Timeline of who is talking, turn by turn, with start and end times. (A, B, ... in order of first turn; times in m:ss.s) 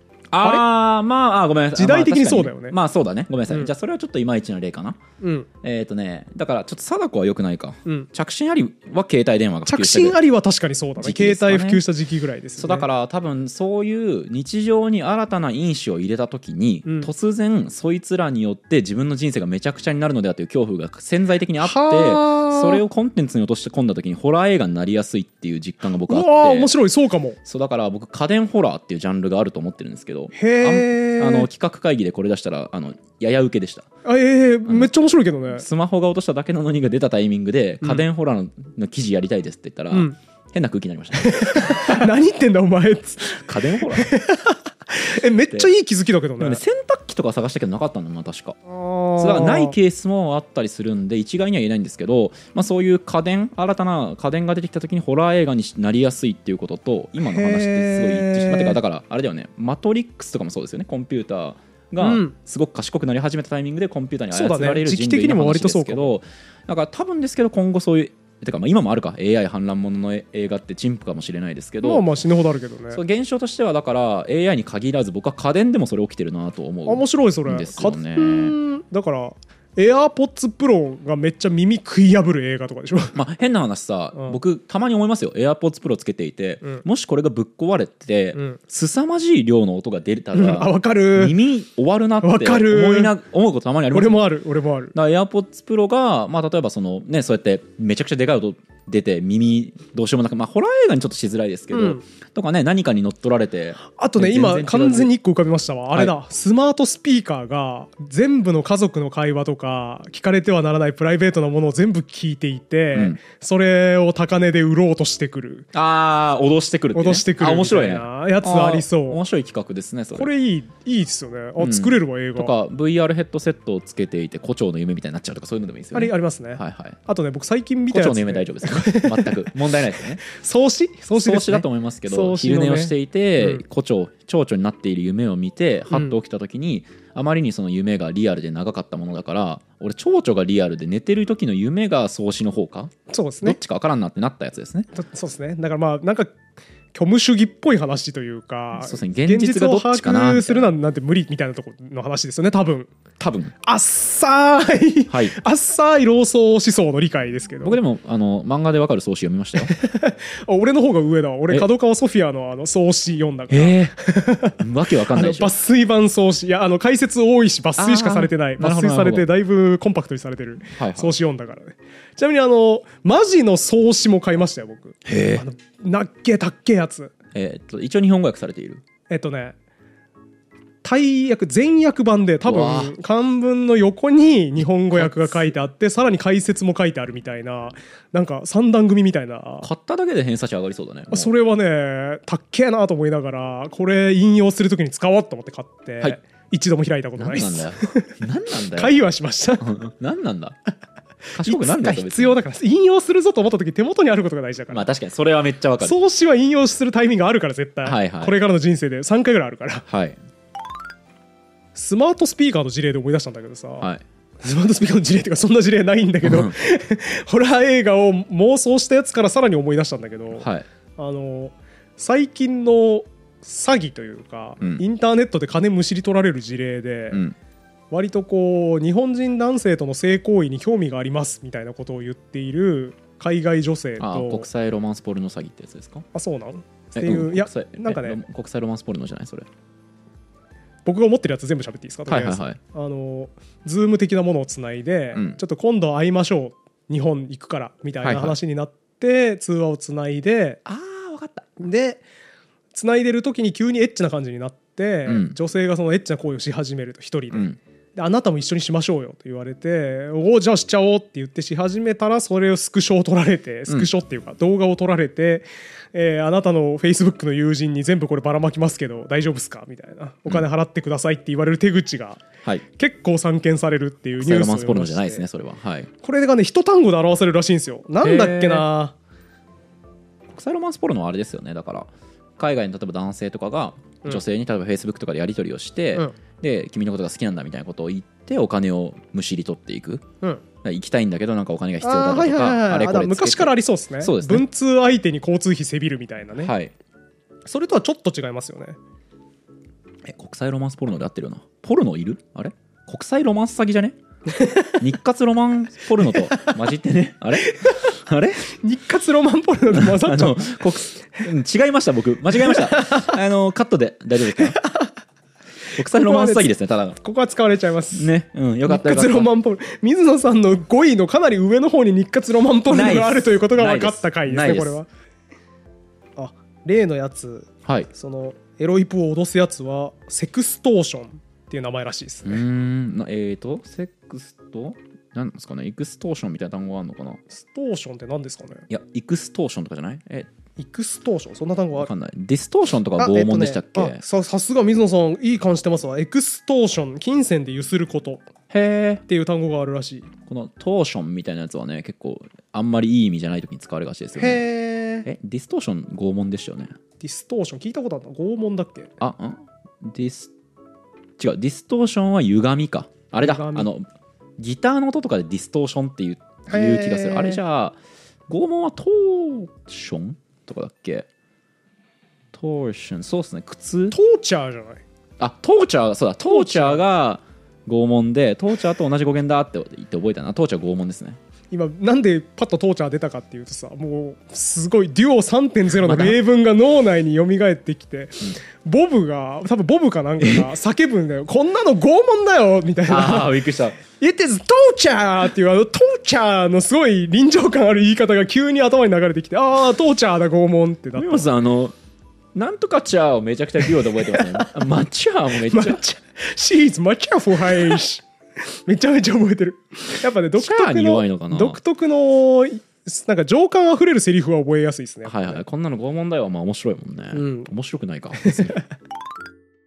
0:00.3-0:05.0 A
0:01.8-0:02.8 B
0:05.2-0:05.5 B
0:05.6-0:10.2 A
0:09.6-0:12.9 B
0:11.0-0:11.8 A
0:12.6-0:26.7 A
0:16.8-0:17.1 B
0:21.6-0:22.8 B
0:26.1-0:27.4 B
0:27.4-0:33.9 A
0:30.3-0:31.5 B
0:34.0-0:35.6 B
0:34.6-0:34.9 A
0:35.5-0:42.1 A
0:41.2-0:46.6 B
0:43.3-0:44.1 A
0:46.4-0:48.6 A
0:48.7-0:49.7 B
0:49.2-1:12.0 A
0:57.2-0:58.8 B
1:02.0-1:02.3 B
1:04.3-1:06.1 B
1:11.8-1:13.0 B
1:12.9-1:18.5 A
1:16.8-1:23.1 B
1:23.1-1:34.2 A
1:30.3-1:31.4 B
1:32.2-1:33.1 B
1:33.9-1:34.9 B
1:34.9-1:45.1 A
1:41.7-1:42.0 B
1:43.8-1:55.7 B
1:55.7-2:00.3 A
1:56.9-1:59.2 B
2:00.1-2:02.5 B
2:01.6-2:07.0 A
2:05.9-2:09.5 B
2:07.9-2:10.2 A
2:10.2-2:13.6 B
2:11.1-2:24.9 A
2:15.9-2:16.2 B
2:23.1-2:23.6 B
2:24.9-2:26.4 B
2:26.9-2:32.9 B
2:28.8-2:30.7 A
2:33.2-2:33.5 A
2:33.6-2:37.8 B
2:35.1-2:35.4 A
2:37.6-2:39.7 A
2:39.6-2:57.1 B
2:43.5-2:43.9 A
2:44.6-2:45.5 A
2:47.8-2:49.3 A
2:50.8-2:51.2 A
2:55.0-2:55.4 A
2:57.3-2:58.8 A
2:59.1-2:59.6 B
3:00.8-3:09.7 B
3:02.4-3:02.9 A
3:04.9-3:05.5 A
3:09.6-3:11.3 A
3:11.1-3:18.1 B
3:17.2-3:18.9 A
3:18.7-3:19.7 B
3:19.6-3:20.6 A
3:21.3-3:22.4 A
3:21.4-3:24.9 B
3:24.7-3:26.0 A
3:25.8-3:29.8 B
3:27.8-3:28.3 A
3:29.9-3:30.2 A
3:31.7-3:33.9 B
3:34.4-3:47.2 B
3:36.2-3:36.5 A
3:40.4-3:40.6 A
3:47.1-3:47.4 A
3:47.9-3:54.5 B
3:54.0-3:56.0 A
3:56.1-3:58.2 B
3:56.9-3:59.5 A
4:00.8-4:10.6 B
4:02.1-4:02.6 A
4:05.1-4:05.4 A
4:08.0-4:08.3 A
4:10.6-4:11.6 A
4:11.6-4:12.0 B
4:12.7-4:35.2 B
4:15.0-4:15.4 A
4:17.3-4:17.6 A
4:34.2-4:35.9 A
4:36.0-4:38.9 B
4:38.0-4:38.6 A
4:40.3-4:50.0 A
4:50.6-4:54.4 A
4:51.8-4:56.5 B
4:56.4-4:56.7 A
4:57.4-4:58.8 B
5:00.0-5:04.0 A
5:04.3-5:04.8 B
5:04.8-5:08.4 A
5:07.5-5:07.9 B
5:08.6-5:10.6 B
5:09.7-5:14.6 A
5:12.4-5:13.1 B
5:14.4-5:14.9 B
5:15.8-5:17.0 A
5:15.8-5:18.1 B
5:17.9-5:19.3 A
5:18.7-5:24.9 B
5:22.7-5:24.8 A
5:26.2-5:32.4 B
5:32.2-5:37.2 A
5:37.3-5:38.6 B
5:38.7-5:40.3 A
5:40.6-5:41.9 B
5:41.7-5:44.0 A
5:43.0-5:48.3 B
5:48.5-5:49.0 A
5:49.0-5:50.1 B
5:50.3-5:54.4 A
5:54.2-5:55.1 B
5:55.0-5:56.7 A
5:57.0-5:58.9 B
5:59.0-6:00.3 A
6:01.2-6:03.8 A
6:03.2-6:03.7 B
6:04.4-6:07.8 A
6:06.5-6:07.4 B
6:08.3-6:11.1 A
6:12.3-6:13.9 A
6:13.9-6:14.8 B
6:15.2-6:21.2 A
6:16.2-6:16.8 B
6:21.5-6:33.4 B
6:25.8-6:26.2 A
6:30.2-6:30.5 A
6:32.9-6:33.8 A
6:34.0-6:41.3 B
6:41.0-6:41.7 A
6:42.3-6:45.8 A
6:44.1-6:44.5 B
6:45.5-6:48.0 B
6:48.6-6:55.4 B
6:50.4-6:51.6 A
6:55.0-6:58.6 A
6:57.1-6:57.5 B
6:58.2-6:58.6 B